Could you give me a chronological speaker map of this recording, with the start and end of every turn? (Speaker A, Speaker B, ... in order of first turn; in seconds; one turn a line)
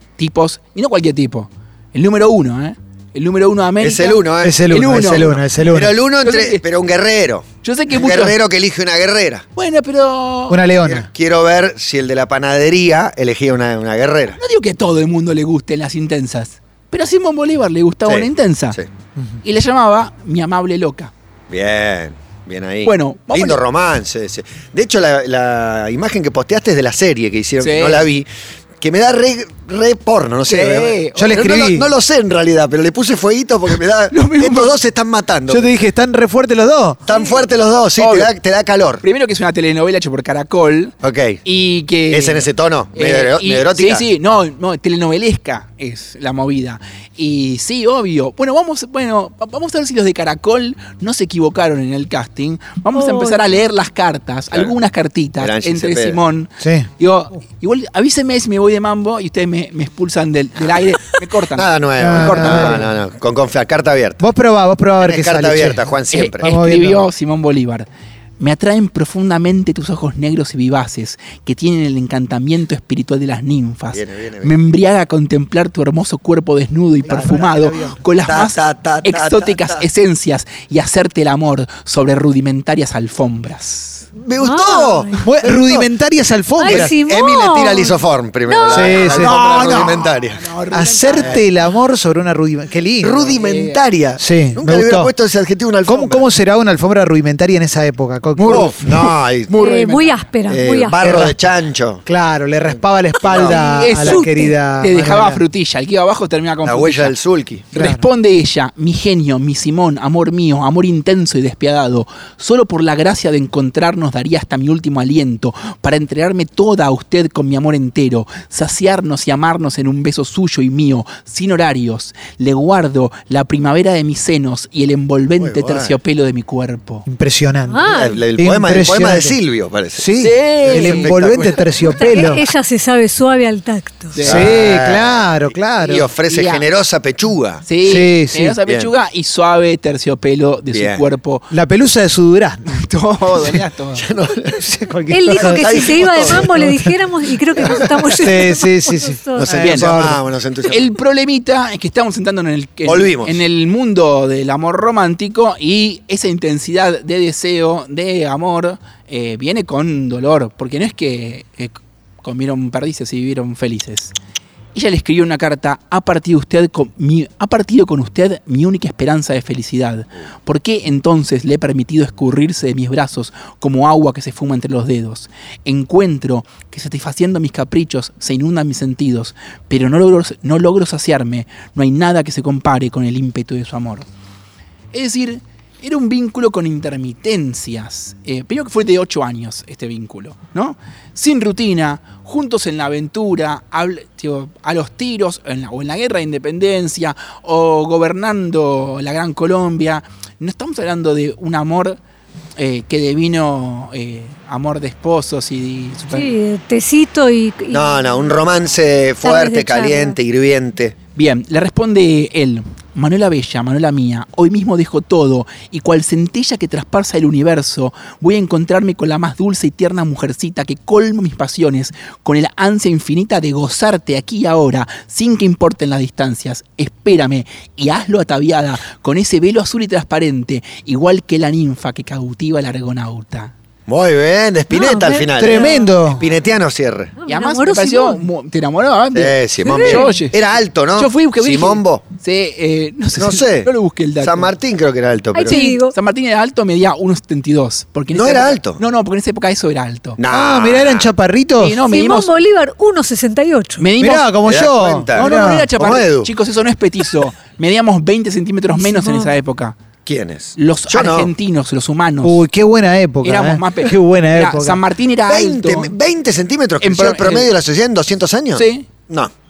Speaker A: 0.2-5.4
Speaker B: 3.8-9.4
Speaker C: 4.4-6.0
Speaker A: 6.2-6.6
Speaker A: 7.6-8.4
Speaker A: 9.6-10.6
Speaker C: 10.5-11.1
Speaker B: 10.8-14.4
Speaker A: 14.3-18.8
Speaker B: 18.1-18.9
Speaker A: 19.4-21.1
Speaker B: 21.5-28.3
Speaker A: 22.8-23.6
Speaker A: 27.6-28.1
Speaker B: 28.8-35.7
Speaker A: 30.4-31.5
Speaker C: 31.1-31.9
Speaker A: 34.1-34.7
Speaker C: 35.5-37.0
Speaker B: 37.0-39.0
Speaker A: 37.1-37.4
Speaker A: 38.0-38.3
Speaker A: 39.0-62.9
Speaker B: 41.0-41.4
Speaker B: 42.1-44.0
Speaker D: 52.9-53.5
Speaker B: 55.4-56.2
Speaker C: 56.6-56.9
Speaker B: 61.5-64.2
Speaker C: 62.0-62.9
Speaker C: 64.2-67.1
Speaker B: 65.0-66.6
Speaker A: 66.1-67.9
Speaker A: 68.4-84.0
Speaker B: 73.9-74.5
Speaker C: 77.0-78.0
Speaker B: 78.2-79.8
Speaker B: 84.2-85.9
Speaker D: 84.4-85.3
Speaker C: 85.2-86.9
Speaker D: 86.6-89.0
Speaker B: 86.7-90.4
Speaker C: 88.7-90.0
Speaker A: 89.1-91.4
Speaker C: 90.7-93.3
Speaker B: 93.0-96.2
Speaker A: 93.2-93.8
Speaker C: 94.2-95.1
Speaker C: 95.8-98.9
Speaker A: 98.4-100.3
Speaker B: 98.4-99.5
Speaker D: 99.5-101.2
Speaker B: 100.5-102.0
Speaker C: 101.0-101.3
Speaker C: 102.0-105.4
Speaker B: 103.2-103.6
Speaker A: 103.3-107.1
Speaker D: 104.0-104.5
Speaker B: 106.6-107.7
Speaker A: 107.7-127.0
Speaker C: 107.7-108.0
Speaker B: 125.4-125.9
Speaker C: 127.0-129.4
Speaker D: 127.7-128.2
Speaker B: 127.9-130.1
Speaker C: 129.9-132.4
Speaker A: 130.2-131.6
Speaker B: 130.7-131.9
Speaker D: 132.0-134.1
Speaker A: 134.1-134.6
Speaker B: 134.2-135.3
Speaker C: 134.2-136.1
Speaker B: 135.8-137.6
Speaker A: 136.3-136.6
Speaker A: 137.6-141.5
Speaker C: 137.8-138.6
Speaker B: 138.7-138.9
Speaker B: 140.7-141.0
Speaker C: 141.5-142.7
Speaker A: 142.7-144.1
Speaker B: 143.9-144.6
Speaker C: 144.5-146.9
Speaker D: 145.1-149.6
Speaker B: 145.3-146.5
Speaker C: 147.6-150.2
Speaker B: 149.3-150.9
Speaker A: 149.6-149.9
Speaker A: 150.7-164.1
Speaker B: 152.9-153.4
Speaker A: 164.7-184.1
Speaker A: 184.9-202.0
Speaker A: 202.6-206.3
Speaker D: 206.1-208.3
Speaker B: 207.7-210.9
Speaker D: 209.2-210.2
Speaker A: 211.2-233.5
Speaker B: 233.9-237.1
Speaker D: 234.7-236.2
Speaker C: 235.4-236.2
Speaker D: 237.2-238.2
Speaker A: 237.3-240.4
Speaker B: 239.1-242.0
Speaker D: 239.6-240.1
Speaker A: 240.9-244.5
Speaker B: 243.2-245.6
Speaker D: 245.3-245.9
Speaker A: 245.4-250.2
Speaker B: 248.1-248.8
Speaker B: 250.2-251.1
Speaker C: 250.3-251.8
Speaker A: 251.6-252.3
Speaker D: 251.9-253.8
Speaker A: 253.8-254.3
Speaker C: 254.0-255.7
Speaker B: 254.4-256.3
Speaker A: 255.1-259.8
Speaker D: 258.7-259.3
Speaker B: 260.1-261.3
Speaker A: 260.6-262.4
Speaker C: 262.2-264.8
Speaker A: 263.2-265.9
Speaker B: 265.3-269.3
Speaker A: 266.8-267.5
Speaker A: 268.5-268.9